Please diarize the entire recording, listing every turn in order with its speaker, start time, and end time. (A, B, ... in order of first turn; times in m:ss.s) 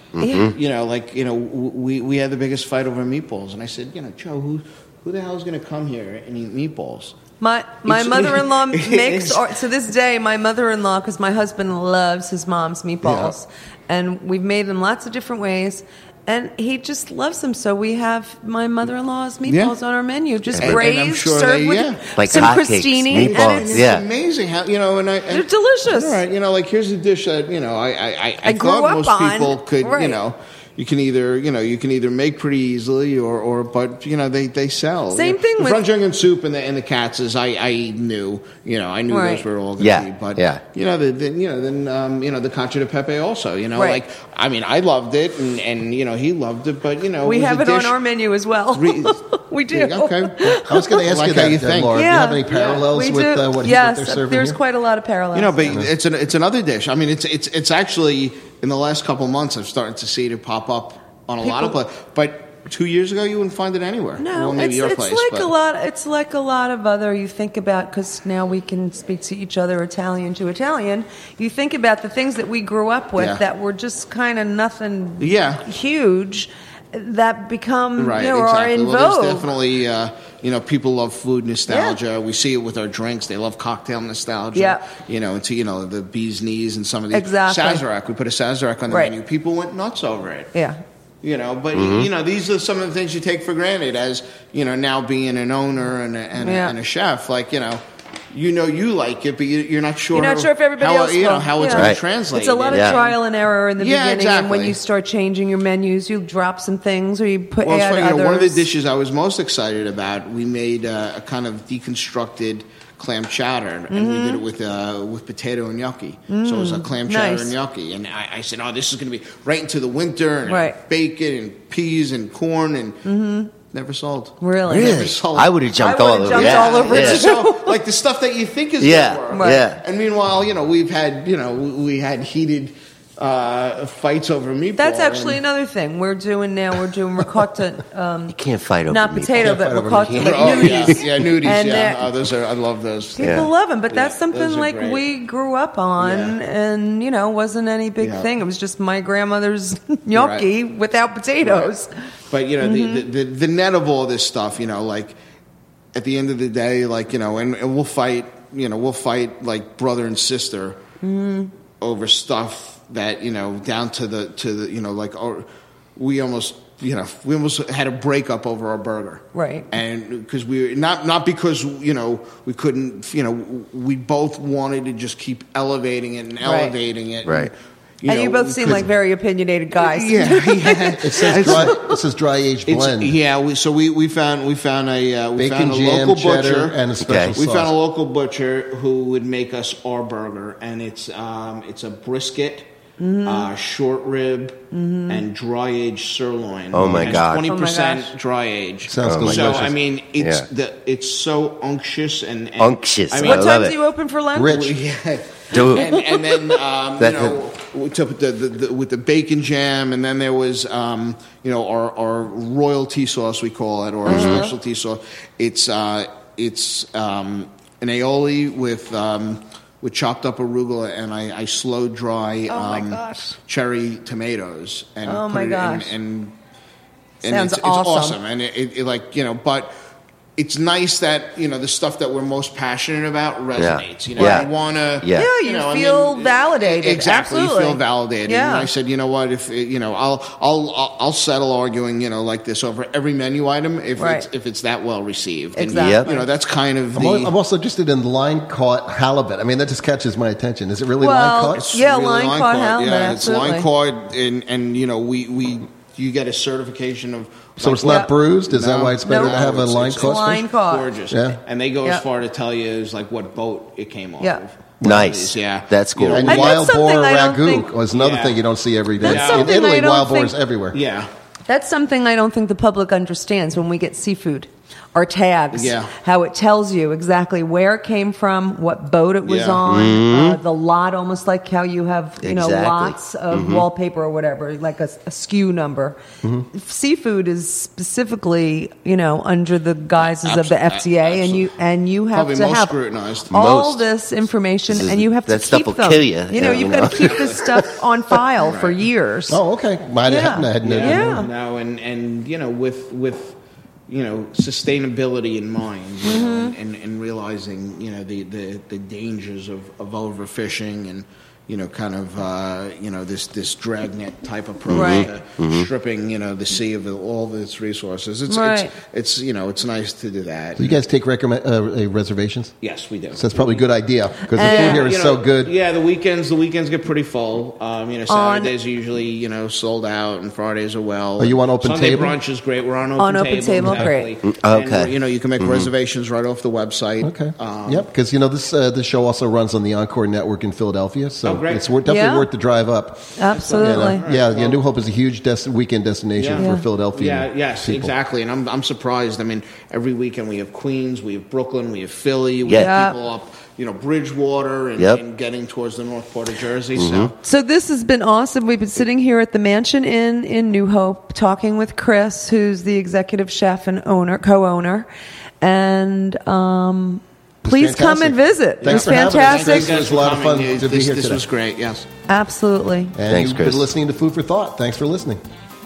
0:00.2-0:00.5 A
0:00.2-0:00.5 B
0:00.3-0:07.2 C
0:07.4-0:23.8 B
0:07.8-0:09.4 C
0:19.4-0:19.7 C
0:20.5-0:20.8 A
0:20.6-0:22.6 C
0:22.1-0:24.0 A
0:23.1-0:47.9 C
0:25.3-0:26.2 B
0:28.4-0:30.2 B
0:35.1-0:35.8 B
0:39.1-0:39.4 B
0:39.8-0:40.6 A
0:43.7-0:44.0 B
0:47.2-0:51.1 B
0:48.7-0:49.2 C
0:49.7-0:50.5 C
0:50.5-0:54.6 D
0:51.0-0:52.8 C
0:51.9-0:55.7 B
0:55.3-1:05.5 C
1:01.4-1:01.8 B
1:04.2-1:19.5 B
1:13.2-1:13.4 C
1:15.2-1:15.6 C
1:18.0-1:30.5 C
1:21.7-1:22.0 B
1:24.5-1:24.8 B
1:27.1-1:27.8 B
1:28.9-1:29.1 B
1:30.5-1:30.8 B
1:31.2-1:43.2 C
1:31.7-1:32.1 A
1:36.4-1:36.7 B
1:40.1-1:48.7 B
1:41.7-1:42.0 A
1:42.7-1:43.0 A
1:43.8-1:44.8 C
1:47.6-2:03.0 C
1:53.9-1:54.4 B
1:56.3-1:57.5 B
2:00.4-2:00.8 B
2:03.0-2:03.5 B
2:03.6-2:05.6 C
2:04.4-2:05.1 B
2:04.7-2:07.2 A
2:05.8-2:07.8 B
2:06.3-2:15.4 C
2:08.8-2:09.8 A
2:09.3-2:09.6 B
2:14.8-2:18.4 B
2:18.3-2:20.9 A
2:18.9-2:22.0 B
2:19.4-2:20.6 D
2:20.2-2:25.0 C
2:23.2-2:31.9 B
2:23.2-2:23.5 A
2:26.0-2:26.4 C
2:28.0-2:28.3 C
2:30.1-2:30.5 C
2:31.4-2:31.7 C
2:32.3-2:35.2 C
2:32.6-2:33.0 B
2:35.9-2:40.8 C
2:41.0-2:41.5 B
2:41.8-2:58.9 C
2:49.3-2:49.7 B
2:56.4-2:56.7 B
2:57.2-2:57.5 A
2:58.1-3:02.0 B
2:59.8-3:01.8 C
3:01.0-3:03.2 D
3:02.7-3:12.7 C
3:05.4-3:07.7 D
3:07.0-3:07.4 A
3:13.0-3:13.5 B
3:13.2-3:23.7 C
3:14.7-3:15.2 B
3:16.7-3:17.5 A
3:17.4-3:18.1 B
3:18.9-3:19.7 D
3:19.0-3:20.4 A
3:22.6-3:23.8 A
3:23.2-3:24.6 B
3:24.3-3:24.7 D
3:24.4-3:46.4 C
3:25.5-3:26.0 A
3:25.5-3:26.0 B
3:27.0-3:27.3 A
3:34.0-3:34.5 A
3:34.0-3:34.5 B
3:42.5-3:43.3 B
3:45.0-3:45.9 B
3:47.2-3:49.7 C
3:47.2-3:48.2 B
3:50.4-4:07.3 C
3:53.5-3:54.5 A
3:54.2-3:54.5 B
3:55.0-3:55.3 A
3:55.1-3:58.7 B
4:04.0-4:04.3 B
4:05.5-4:06.2 B
4:05.7-4:06.1 A
4:06.9-4:11.7 D
4:11.0-4:13.7 B
4:11.5-4:26.6 C
4:17.6-4:20.4 D
4:17.8-4:18.1 B
4:19.0-4:19.4 B
4:20.0-4:20.9 B
4:21.1-4:21.4 D
4:24.8-4:26.3 A
4:26.1-4:30.8 D
4:26.2-4:27.7 B
4:27.9-4:28.4 C
4:29.0-4:30.4 B
4:29.0-4:29.6 C
4:30.7-4:31.1 C
4:31.5-4:46.0 B
4:35.5-4:35.9 C
4:39.2-4:39.6 C
4:39.6-4:40.4 A
4:42.2-4:43.6 A
4:46.5-4:52.8 B
4:50.0-4:51.5 C
4:52.1-4:53.3 C
4:53.3-4:59.4 B
4:53.3-4:53.8 A
4:54.7-4:57.4 A
4:56.9-4:57.4 C
4:58.4-4:58.8 C
4:59.3-5:01.2 D
5:00.0-5:01.3 B
5:00.6-5:03.4 C
5:03.9-5:20.8 C
5:06.0-5:06.5 B
5:14.7-5:15.1 B
5:14.7-5:15.6 A
5:18.3-5:18.7 B
5:20.6-5:22.5 D
5:22.6-5:23.6 C
5:23.1-5:25.5 D
5:24.3-5:24.9 B
5:24.4-5:37.8 C
5:28.1-5:28.5 B
5:31.2-5:32.2 D
5:33.0-5:34.1 B
5:34.2-5:35.7 A
5:37.0-5:47.9 D
5:41.2-5:41.7 C
5:41.8-5:42.3 B
5:43.2-5:44.0 B
5:43.3-5:44.6 C
5:46.2-5:57.1 C
5:46.4-5:46.6 B
5:52.4-5:52.8 A
5:52.5-5:53.0 B
5:56.8-5:57.1 A
5:57.2-6:04.9 B
6:05.4-6:09.8 B
6:07.4-6:11.2 D
6:08.6-6:11.8 C
6:12.1-6:12.9 B
6:12.9-6:15.2 D
6:13.1-6:13.6 A